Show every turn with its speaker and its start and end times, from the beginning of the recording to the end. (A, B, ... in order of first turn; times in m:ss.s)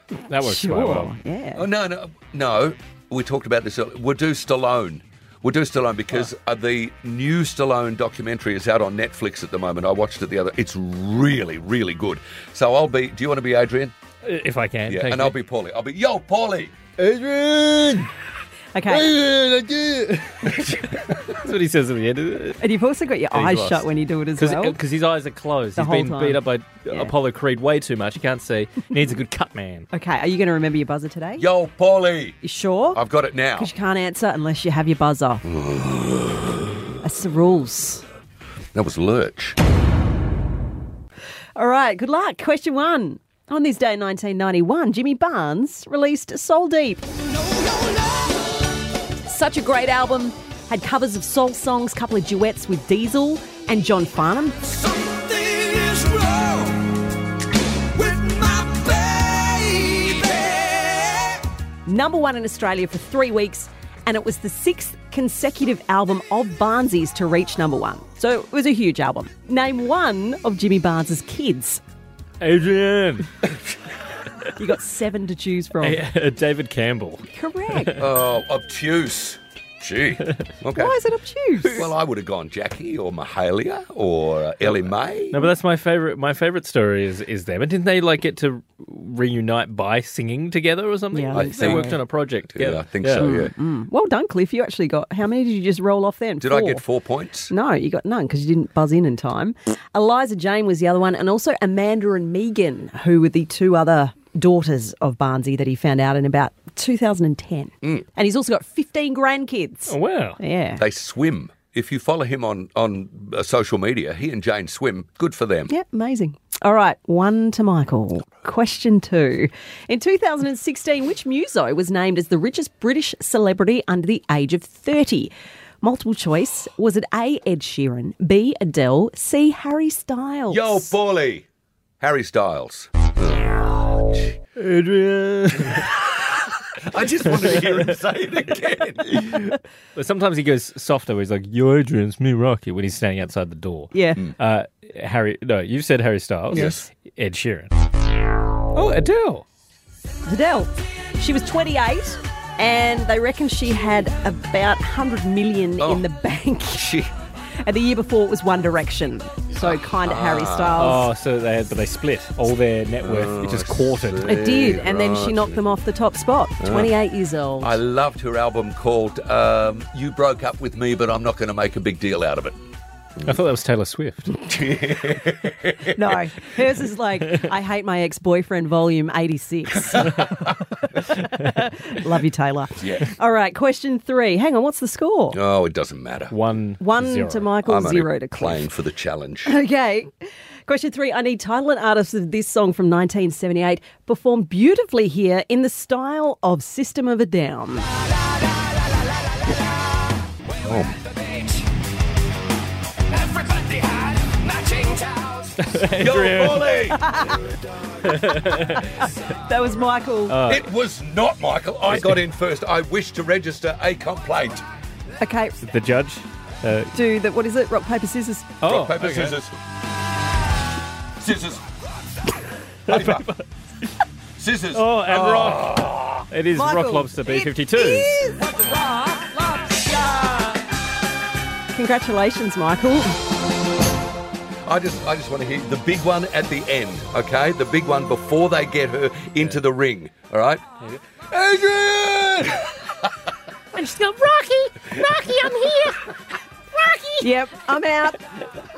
0:00.3-0:01.1 A
0:00.4-0:01.6 B
0:01.6-0:13.9 C
0:14.2-0:15.4 A
0:14.9-0:16.8 C
0:17.0-0:18.1 A
0:18.7-0:19.1 B
0:18.9-0:22.6 A
0:22.6-0:24.8 B
0:23.3-0:23.8 A
0:24.4-0:29.9 A
0:25.8-0:27.1 B
0:29.9-0:31.4 B
0:31.4-0:32.4 C
0:32.4-0:33.0 B
0:32.9-0:33.7 C
0:33.6-0:35.4 B
0:35.4-0:36.7 C
0:37.0-0:38.0 B
0:38.7-0:39.6 C
0:41.6-0:48.3 B
0:49.3-0:54.8 B
0:55.0-0:56.7 D
0:58.0-0:58.7 B
0:58.2-1:00.2 D
0:59.9-1:00.4 B
1:01.9-1:11.8 B
1:12.4-1:13.3 A
1:14.6-1:16.0 B
1:15.8-1:18.0 A
1:17.3-1:18.0 B
1:18.0-1:21.0 C
1:20.8-1:21.9 B
1:21.6-1:25.5 C
1:25.3-1:33.3 A
1:31.1-1:32.0 B
1:31.3-1:31.9 C
1:32.6-1:33.5 C
1:33.2-1:36.8 B
1:36.4-1:37.5 C
1:37.5-1:50.8 B
1:49.9-1:50.4 A
1:50.8-1:55.7 C
1:55.7-2:11.0 B
2:10.5-2:11.5 C
2:12.0-2:13.8 C
2:14.6-2:15.9 A
2:16.8-2:19.4 C
2:19.1-2:27.7 A
2:23.9-2:24.3 B
2:26.5-2:26.9 C
2:26.5-2:26.8 B
2:28.7-2:29.4 A
2:30.3-2:36.9 B
2:35.8-2:36.1 C
2:36.7-2:37.1 C
2:37.6-2:41.1 B
2:39.6-2:41.0 C
2:40.8-2:44.3 A
2:43.0-2:45.6 C
2:44.2-2:47.8 B
2:46.6-2:46.9 C
2:47.6-2:52.6 C
2:53.2-2:54.4 A
2:54.3-2:56.2 C
2:55.9-3:05.4 B
2:59.9-3:00.3 C
3:02.8-3:03.1 C
3:05.3-3:06.3 C
3:06.3-3:07.6 A
3:06.8-3:08.7 B
3:07.6-3:09.6 C
3:09.4-3:10.1 B
3:10.7-3:17.9 B
3:20.6-3:21.0 C
3:23.9-3:25.0 C
3:25.6-3:26.8 A
3:25.9-3:27.1 C
3:26.8-3:27.4 B
3:28.0-3:29.0 A
3:28.1-3:30.4 B
3:30.3-3:30.7 A
3:30.5-3:34.6 C
3:35.2-3:35.6 B
3:35.6-3:36.9 A
3:36.9-3:38.6 B
3:38.6-3:39.4 A
3:38.6-3:39.6 C
3:41.2-3:41.6 C
3:42.9-3:43.3 C
3:42.9-3:43.4 A
3:44.4-3:46.2 C
3:44.7-3:48.3 A
3:46.6-3:49.1 B
3:51.7-3:53.3 B
3:54.7-4:00.6 C
4:01.3-4:02.9 C
4:03.7-4:06.1 A
4:06.7-4:07.3 A
4:07.2-4:08.2 B